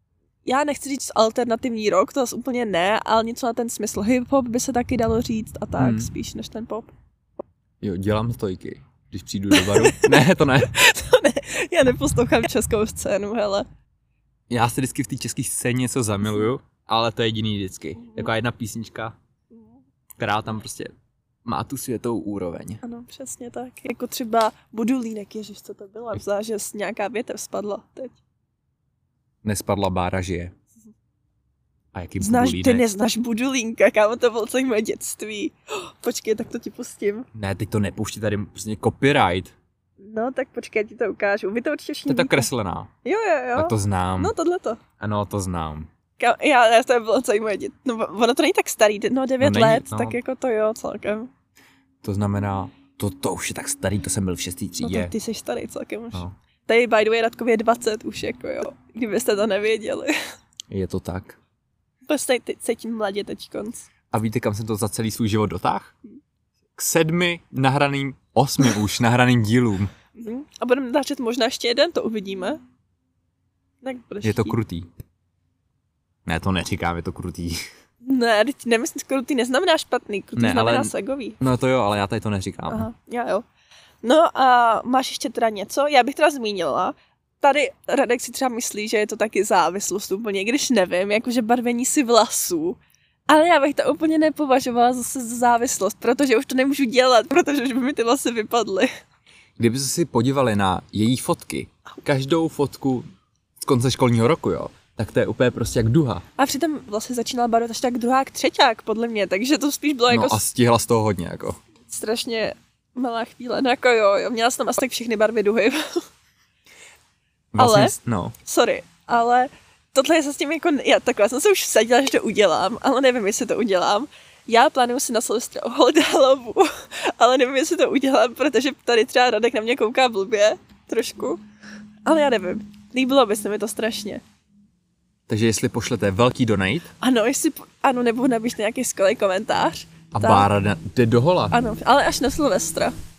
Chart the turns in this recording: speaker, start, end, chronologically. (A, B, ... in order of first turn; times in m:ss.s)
0:00.4-0:06.9 A
0:05.8-0:06.1 B
0:07.8-0:10.7 B
0:09.5-0:13.6 A
0:14.5-0:19.1 B
0:18.0-0:18.3 A
0:19.5-0:19.8 A
0:20.2-0:22.8 B
0:22.8-0:28.2 A
0:29.4-0:30.5 B
0:31.9-0:32.8 B
0:32.2-0:37.3 A
0:37.3-0:39.5 B
0:40.0-0:42.5 A
0:42.1-0:42.9 B
0:43.0-0:44.8 A
0:43.5-0:44.3 B
0:45.0-0:45.9 B
0:46.2-0:51.3 A
0:49.4-0:50.2 B
0:52.0-0:55.1 B
0:54.8-1:00.1 A
1:00.7-1:01.4 B
1:02.1-1:03.9 A
1:04.1-1:05.9 B
1:06.8-1:09.9 B
1:10.2-1:12.6 A
1:13.8-1:14.6 A
1:14.2-1:14.9 B
1:16.2-1:17.6 B
1:18.0-1:21.4 A
1:20.4-1:22.9 B
1:22.7-1:23.4 A
1:24.0-1:38.9 A
1:39.6-1:43.1 B
1:43.6-1:46.2 B
1:46.4-1:50.4 A
1:50.1-1:51.6 B
1:51.9-1:56.0 A
1:57.5-1:58.3 B
1:57.6-2:11.4 A
2:12.0-2:14.2 A
2:15.3-2:16.9 B
2:17.0-2:20.5 A
2:20.1-2:21.5 B
2:21.5-2:22.9 A